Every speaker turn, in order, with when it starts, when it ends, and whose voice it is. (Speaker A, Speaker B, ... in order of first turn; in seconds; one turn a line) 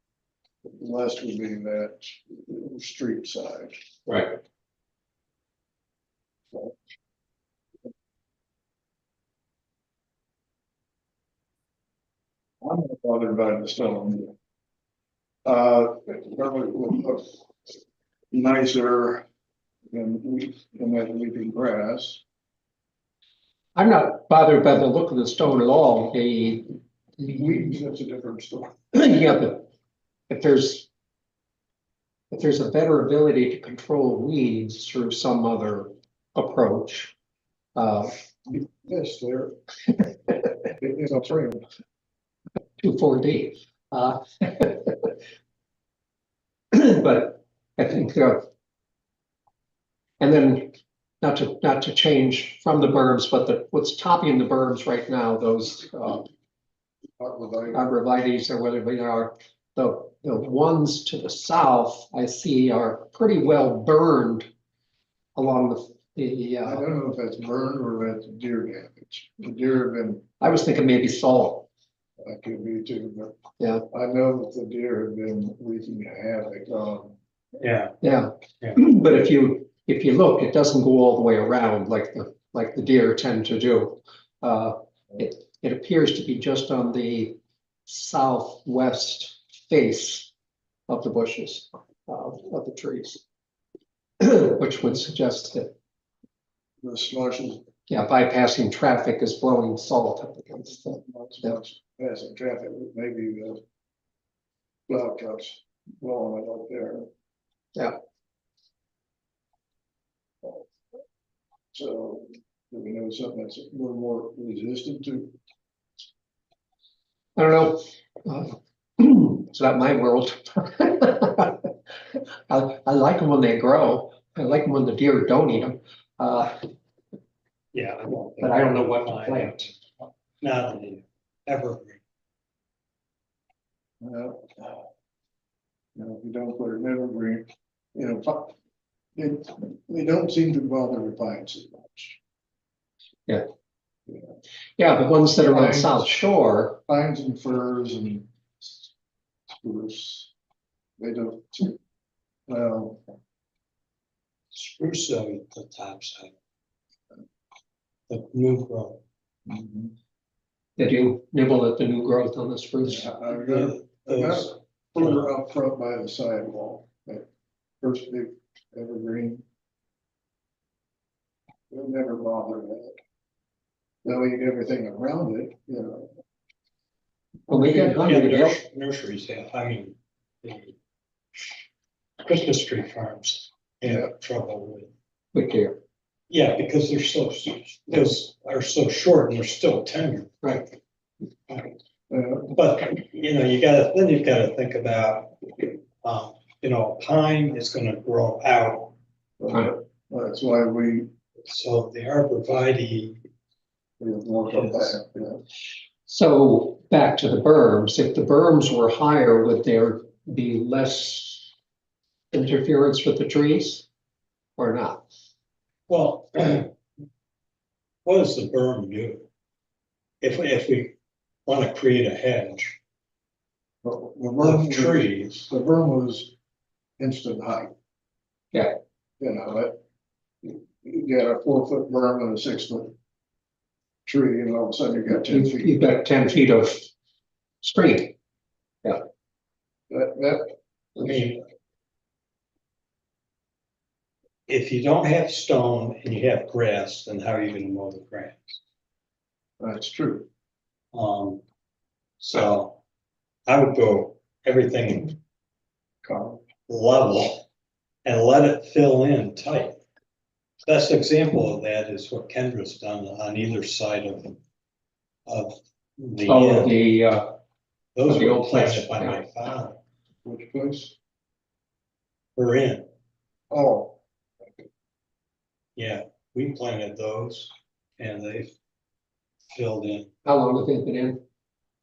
Speaker A: 0.7-3.8
Speaker B: 4.1-4.4
Speaker A: 12.6-14.3
Speaker A: 15.4-17.4
Speaker A: 18.3-19.2
Speaker A: 19.9-22.2
Speaker B: 23.8-26.7
Speaker A: 27.2-28.8
Speaker B: 28.9-29.7
Speaker B: 30.3-30.9
Speaker B: 32.3-37.1
Speaker B: 37.8-38.1
Speaker A: 38.5-39.5
Speaker A: 40.8-41.6
Speaker B: 42.8-45.1
Speaker B: 46.7-48.5
Speaker B: 50.2-56.3
Speaker A: 57.2-57.9
Speaker B: 57.7-64.5
Speaker B: 65.4-66.8
Speaker A: 66.6-70.3
Speaker B: 70.4-71.7
Speaker A: 72.2-73.4
Speaker B: 73.6-73.8
Speaker A: 73.9-77.2
Speaker C: 77.6-78.0
Speaker B: 78.0-90.3
Speaker B: 90.9-93.2
Speaker B: 94.2-95.7
Speaker A: 96.8-97.7
Speaker B: 97.9-101.6
Speaker A: 100.8-103.6
Speaker A: 104.9-107.1
Speaker A: 111.7-115.3
Speaker B: 117.4-121.7
Speaker B: 122.5-126.5
Speaker C: 127.7-129.8
Speaker B: 128.4-129.7
Speaker C: 130.4-132.0
Speaker A: 134.0-134.9
Speaker A: 135.9-138.5
Speaker A: 139.2-142.2
Speaker B: 144.8-146.8
Speaker A: 145.3-146.1
Speaker A: 146.9-148.9
Speaker A: 149.5-150.3
Speaker A: 151.0-151.8
Speaker A: 152.5-153.0
Speaker C: 154.5-156.3
Speaker C: 158.1-159.0
Speaker A: 159.5-159.9
Speaker B: 160.8-163.1
Speaker A: 162.8-167.3
Speaker C: 163.4-165.3
Speaker A: 167.8-169.4
Speaker A: 171.7-173.0
Speaker A: 174.0-176.1
Speaker B: 177.5-178.6
Speaker C: 177.5-180.8
Speaker C: 182.2-184.9
Speaker B: 185.3-185.8
Speaker C: 186.3-190.6
Speaker C: 191.5-191.7
Speaker A: 192.1-192.5
Speaker C: 192.5-198.9
Speaker A: 199.4-201.1
Speaker C: 201.5-203.2
Speaker A: 204.0-205.4
Speaker C: 204.5-205.0
Speaker B: 206.1-211.5
Speaker B: 212.3-213.9
Speaker B: 214.6-215.1
Speaker C: 215.9-216.7
Speaker C: 218.1-219.3
Speaker C: 220.2-220.9
Speaker C: 221.5-222.8
Speaker A: 223.8-226.3
Speaker C: 224.4-225.5
Speaker A: 227.0-227.7
Speaker A: 229.2-229.8
Speaker A: 230.4-232.9
Speaker A: 234.1-235.9
Speaker B: 235.3-236.9
Speaker B: 237.6-238.2
Speaker A: 239.9-241.3
Speaker C: 241.0-241.4
Speaker C: 244.5-248.6
Speaker A: 249.6-250.3
Speaker C: 250.9-251.4
Speaker C: 252.2-252.8
Speaker C: 253.5-255.2
Speaker A: 256.0-256.4
Speaker C: 256.7-257.5
Speaker C: 258.1-259.8
Speaker C: 260.7-264.4
Speaker C: 265.3-266.8
Speaker B: 266.2-267.3
Speaker C: 267.9-269.8
Speaker B: 268.1-269.2
Speaker A: 270.2-271.0
Speaker C: 272.4-272.9
Speaker A: 273.5-274.0
Speaker C: 275.8-278.5
Speaker C: 279.5-280.1
Speaker B: 280.2-281.2